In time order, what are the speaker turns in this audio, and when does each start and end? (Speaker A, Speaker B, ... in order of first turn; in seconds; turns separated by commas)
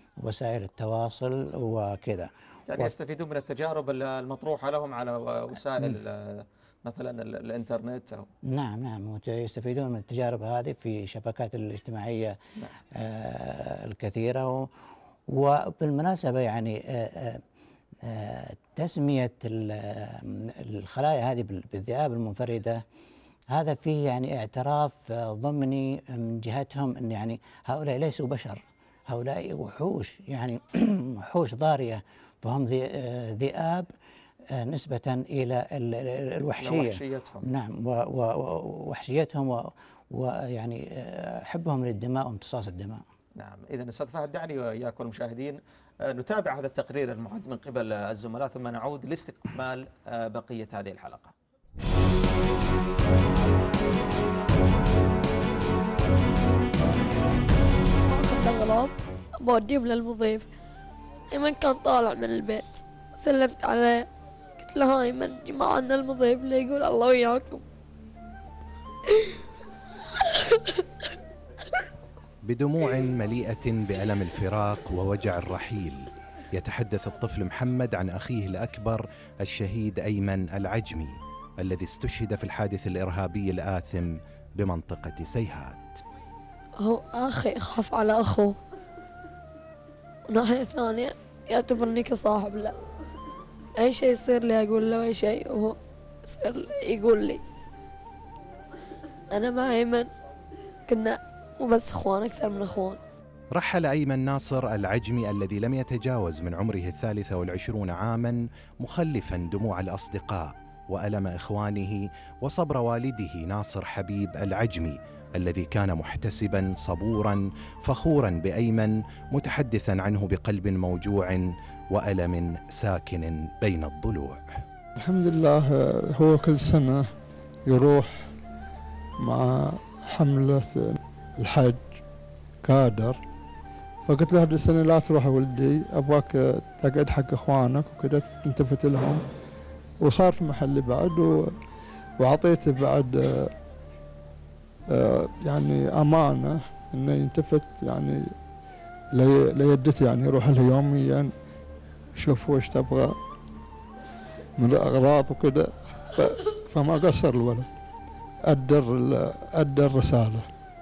Speaker A: 0.2-2.9, Speaker B: 2.7-8.3, Speaker A: 8.5-12.4, Speaker A: 12.9-14.7, Speaker A: 15.3-17.4, Speaker A: 18.0-22.8, Speaker A: 23.5-33.9, Speaker A: 34.5-43.0, Speaker B: 36.6-37.5, Speaker B: 43.4-51.3, Speaker C: 58.1-60.5, Speaker C: 61.3-64.1, Speaker C: 64.6-67.6, Speaker C: 70.2-71.1, Speaker D: 72.4-85.9, Speaker C: 86.8-88.6, Speaker C: 90.3-92.8, Speaker C: 93.8-97.4, Speaker C: 99.3-100.1, Speaker C: 100.9-103.0, Speaker D: 103.5-124.4, Speaker E: 125.0-127.1, Speaker E: 127.7-128.3, Speaker E: 129.2-132.0, Speaker E: 132.6-133.2, Speaker E: 134.1-139.3, Speaker E: 140.0-141.6, Speaker E: 142.2-143.5, Speaker E: 144.9-148.4, Speaker E: 149.1-151.3, Speaker E: 152.2-153.2, Speaker E: 154.6-157.7, Speaker E: 158.5-160.5